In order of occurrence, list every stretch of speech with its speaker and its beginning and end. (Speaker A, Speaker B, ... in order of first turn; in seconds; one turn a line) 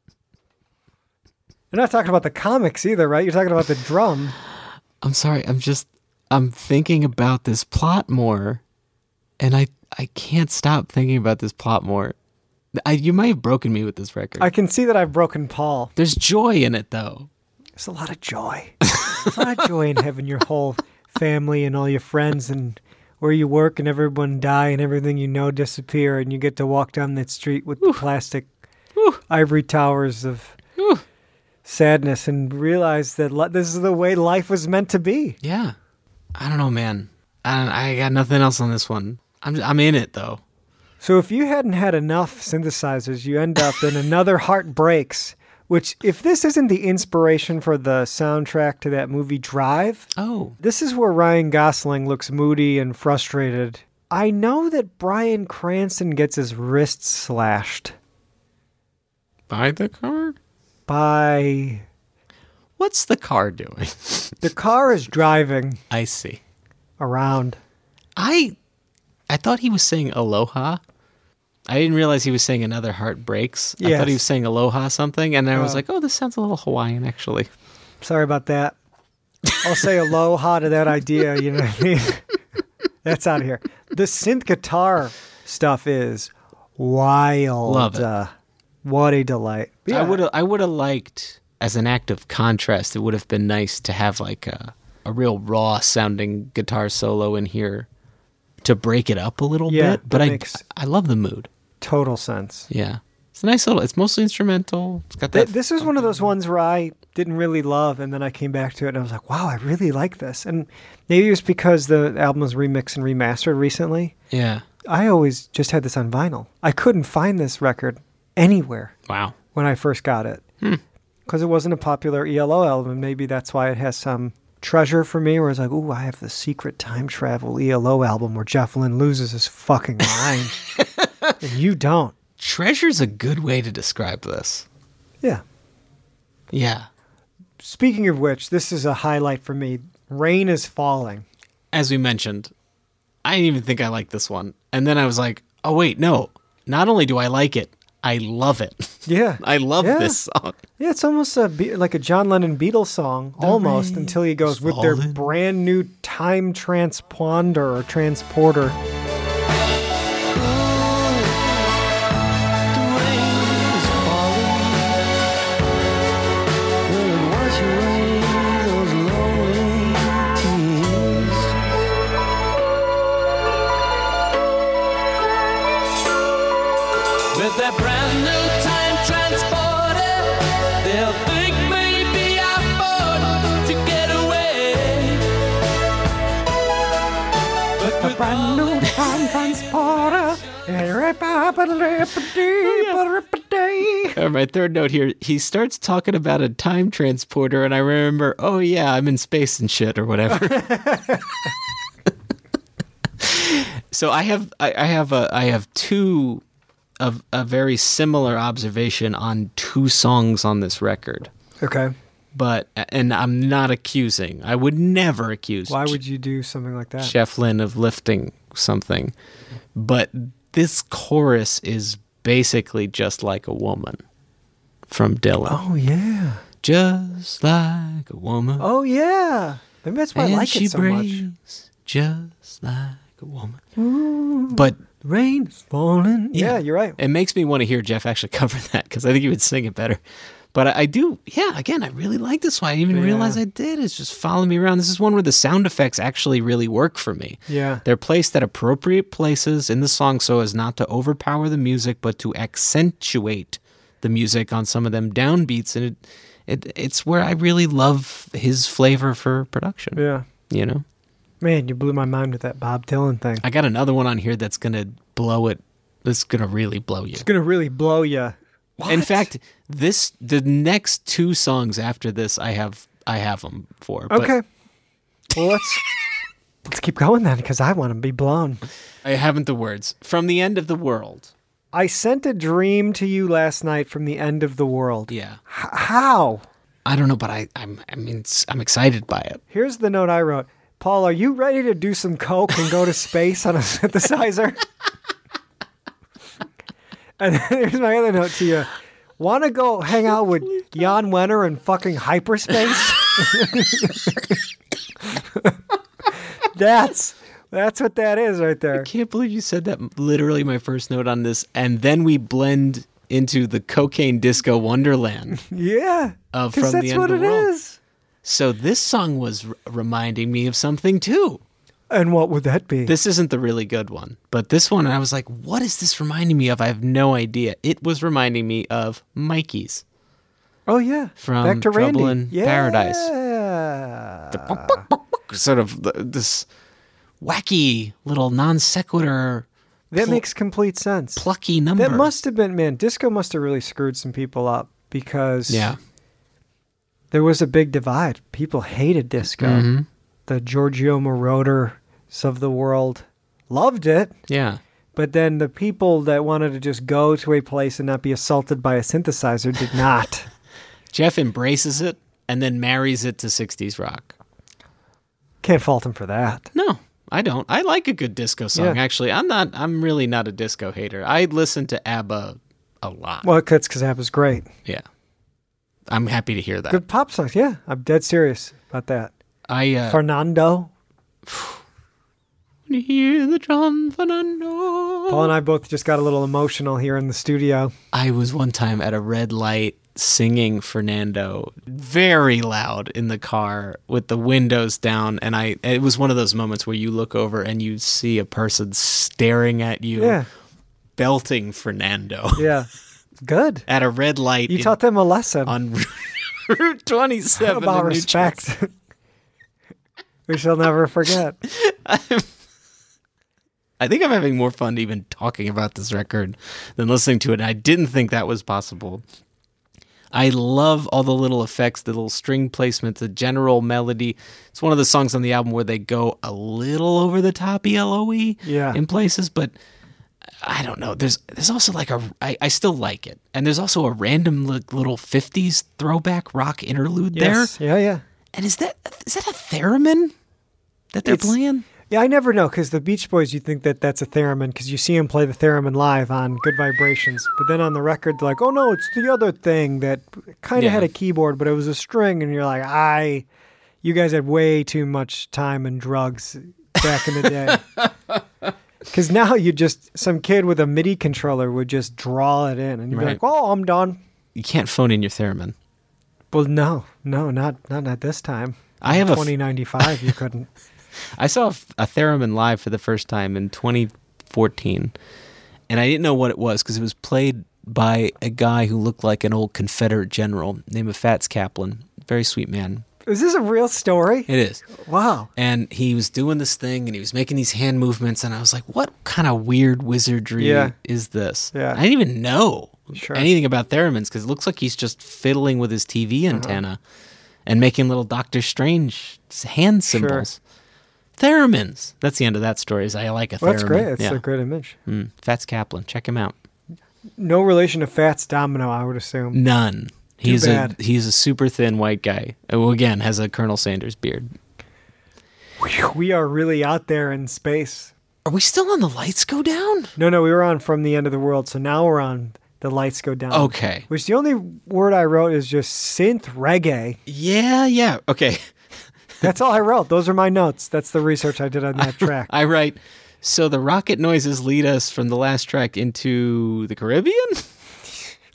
Speaker A: 1.7-4.3
Speaker B: 5.0-8.6
Speaker B: 9.4-12.2
Speaker B: 12.7-14.5
Speaker A: 14.4-15.9
Speaker B: 16.0-17.3
Speaker A: 17.8-28.5
Speaker A: 29.3-30.6
Speaker B: 30.8-31.0
Speaker A: 31.7-35.4
Speaker B: 35.4-35.8
Speaker B: 36.4-40.4
Speaker A: 41.0-50.1
Speaker B: 50.2-50.6
Speaker A: 50.6-58.0
Speaker B: 59.5-60.4
Speaker A: 60.9-61.9
Speaker B: 62.8-64.4
Speaker A: 64.4-65.8
Speaker B: 65.9-66.4
Speaker A: 67.0-67.6
Speaker B: 68.2-68.5
Speaker B: 69.3-70.8
Speaker B: 71.7-77.5
Speaker A: 73.8-74.2
Speaker A: 75.5-75.8
Speaker A: 78.0-78.8
Speaker A: 79.6-82.3
Speaker A: 83.0-88.3
Speaker B: 87.7-88.1
Speaker A: 88.8-90.2
Speaker B: 89.9-97.9
Speaker B: 98.6-101.5
Speaker A: 99.7-100.6
Speaker A: 101.8-102.7
Speaker B: 102.7-106.3
Speaker A: 105.3-114.1
Speaker B: 114.3-114.7
Speaker A: 114.9-118.9
Speaker B: 119.1-119.4
Speaker A: 119.5-120.4
Speaker A: 121.3-130.6
Speaker B: 130.8-131.3
Speaker A: 131.4-132.2
Speaker B: 132.4-134.7
Speaker B: 136.5-136.9
Speaker A: 137.6-141.3
Speaker B: 141.7-142.5
Speaker B: 143.2-150.6
Speaker A: 149.1-150.2
Speaker A: 150.8-158.8
Speaker B: 153.4-155.3
Speaker C: 160.3-161.5
Speaker C: 162.7-165.1
Speaker C: 166.9-171.7
Speaker C: 177.3-185.3
Speaker C: 187.8-189.0
Speaker A: 188.0-194.2
Speaker B: 192.6-193.0
Speaker B: 194.1-201.0
Speaker A: 200.3-201.2
Speaker B: 203.2-206.4
Speaker B: 207.0-211.3
Speaker A: 211.6-211.9
Speaker B: 212.3-216.0
Speaker A: 215.7-217.1
Speaker B: 217.0-219.1
Speaker B: 219.8-224.0
Speaker B: 224.9-225.6
Speaker A: 225.5-226.4
Speaker B: 226.6-228.7
Speaker A: 228.6-231.3
Speaker B: 230.2-233.6
Speaker A: 233.8-237.0
Speaker B: 234.5-234.8
Speaker B: 236.3-240.0
Speaker B: 240.5-260.9
Speaker A: 242.9-243.4
Speaker A: 247.5-247.8
Speaker A: 260.0-260.3
Speaker A: 261.4-263.4
Speaker B: 263.4-267.3
Speaker A: 267.2-269.3
Speaker B: 268.9-274.3
Speaker A: 274.1-274.4
Speaker A: 275.3-275.9
Speaker A: 276.7-278.6
Speaker B: 279.0-281.3
Speaker A: 281.7-286.4
Speaker B: 285.1-285.4
Speaker B: 286.9-289.4
Speaker A: 289.5-294.6
Speaker A: 297.2-304.2
Speaker B: 300.1-300.9
Speaker A: 306.5-308.9
Speaker B: 308.7-315.4
Speaker A: 315.4-317.8
Speaker B: 316.3-317.5
Speaker B: 318.2-321.4
Speaker A: 321.9-322.9
Speaker B: 322.9-329.8
Speaker A: 330.7-334.8
Speaker B: 331.2-333.1
Speaker B: 334.3-336.5
Speaker B: 337.2-340.2
Speaker A: 339.9-341.2
Speaker B: 341.2-342.1
Speaker A: 341.8-345.8
Speaker B: 345.5-345.8
Speaker A: 347.1-349.7
Speaker B: 349.4-349.9
Speaker A: 350.3-354.1
Speaker B: 354.3-354.6
Speaker A: 354.9-360.3
Speaker B: 360.9-364.2
Speaker A: 365.4-366.5
Speaker B: 366.5-373.3
Speaker A: 373.2-374.5
Speaker B: 375.9-376.8
Speaker A: 376.7-379.1
Speaker B: 379.5-380.0
Speaker A: 379.9-380.7
Speaker B: 381.3-381.6
Speaker B: 382.7-385.3
Speaker A: 385.1-387.7
Speaker B: 387.9-400.2
Speaker A: 400.0-400.3
Speaker B: 401.0-402.5
Speaker A: 402.4-402.7
Speaker A: 403.2-403.7
Speaker B: 403.7-404.8
Speaker A: 404.5-405.5
Speaker B: 405.4-408.4
Speaker A: 407.4-408.7
Speaker A: 410.3-411.4
Speaker B: 411.4-412.3
Speaker B: 413.8-419.1
Speaker B: 420.1-429.5
Speaker A: 428.4-428.8
Speaker B: 430.4-437.5
Speaker A: 437.1-438.0
Speaker B: 438.3-440.1
Speaker B: 440.9-441.7
Speaker A: 441.0-441.4
Speaker A: 441.9-453.3
Speaker B: 450.6-450.9
Speaker A: 453.8-457.6
Speaker B: 457.2-457.9
Speaker A: 458.9-464.0
Speaker B: 462.9-463.2
Speaker B: 464.4-465.6
Speaker A: 466.3-470.5
Speaker B: 468.8-470.1
Speaker B: 471.2-474.9
Speaker B: 475.7-482.9
Speaker A: 483.1-485.3
Speaker B: 484.3-484.7
Speaker B: 485.4-496.8
Speaker A: 490.4-490.7
Speaker A: 491.5-491.8
Speaker A: 492.9-493.3
Speaker A: 496.3-496.6
Speaker B: 497.5-500.4
Speaker A: 499.9-500.3
Speaker B: 501.2-504.2
Speaker A: 503.4-504.8
Speaker B: 504.9-506.4
Speaker A: 507.2-509.4
Speaker B: 509.3-514.3
Speaker A: 510.2-510.8
Speaker A: 515.6-517.9
Speaker B: 518.2-519.9
Speaker A: 520.0-527.0
Speaker B: 523.3-523.9
Speaker B: 527.1-528.5
Speaker A: 529.2-532.3
Speaker B: 531.8-537.5